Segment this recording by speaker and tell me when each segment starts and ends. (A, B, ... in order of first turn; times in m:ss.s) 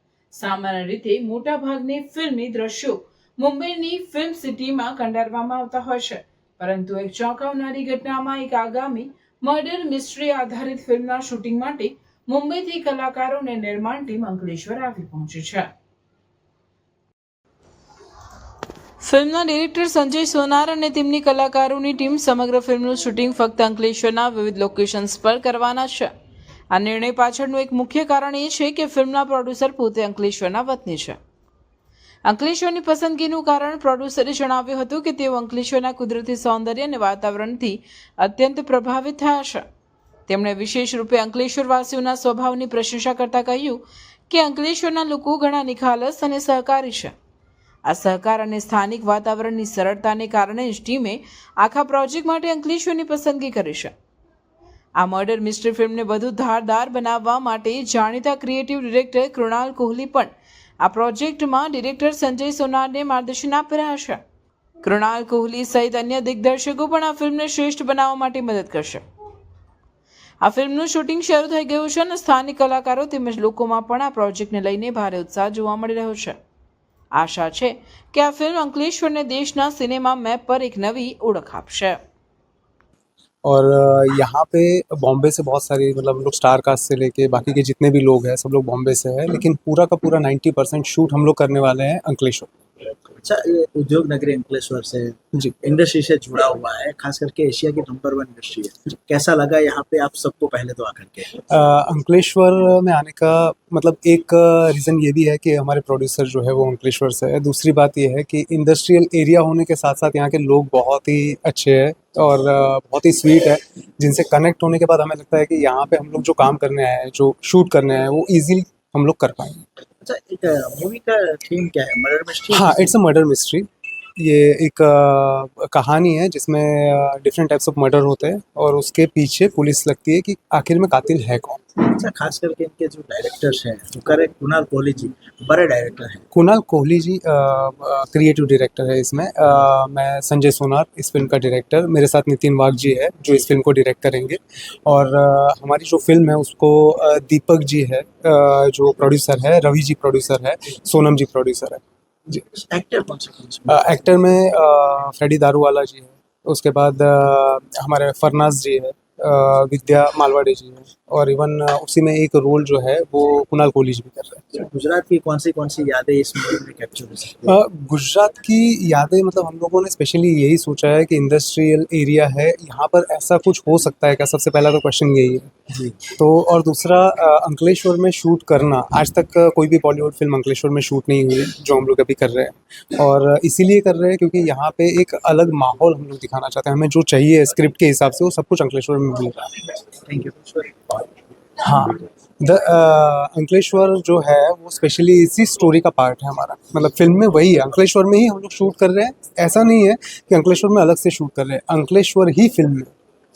0:00.3-0:15.7 A
0:19.0-0:26.1 A
0:26.7-0:31.2 A
0:32.2-0:39.6 A
0:40.3-0:47.1 A
0:47.8-0:53.9 A
0:55.0-1:00.3 A
1:00.8-1:04.2 A
1:04.8-1:09.0 A
1:10.4-1:16.4 A
1:17.1-1:22.0 A
1:23.4-1:32.5 B
1:33.2-1:41.4 C
1:41.5-1:59.6 B
2:00.0-2:02.9 C
2:02.5-2:11.6 B
2:11.8-2:16.2 C
2:16.3-2:31.8 B
2:32.3-2:34.1 C
2:33.7-2:44.4 B
2:44.5-2:47.6 C
2:47.5-2:55.5 B
2:56.1-3:09.5 B
3:10.0-3:11.1 C
3:11.6-3:22.9 B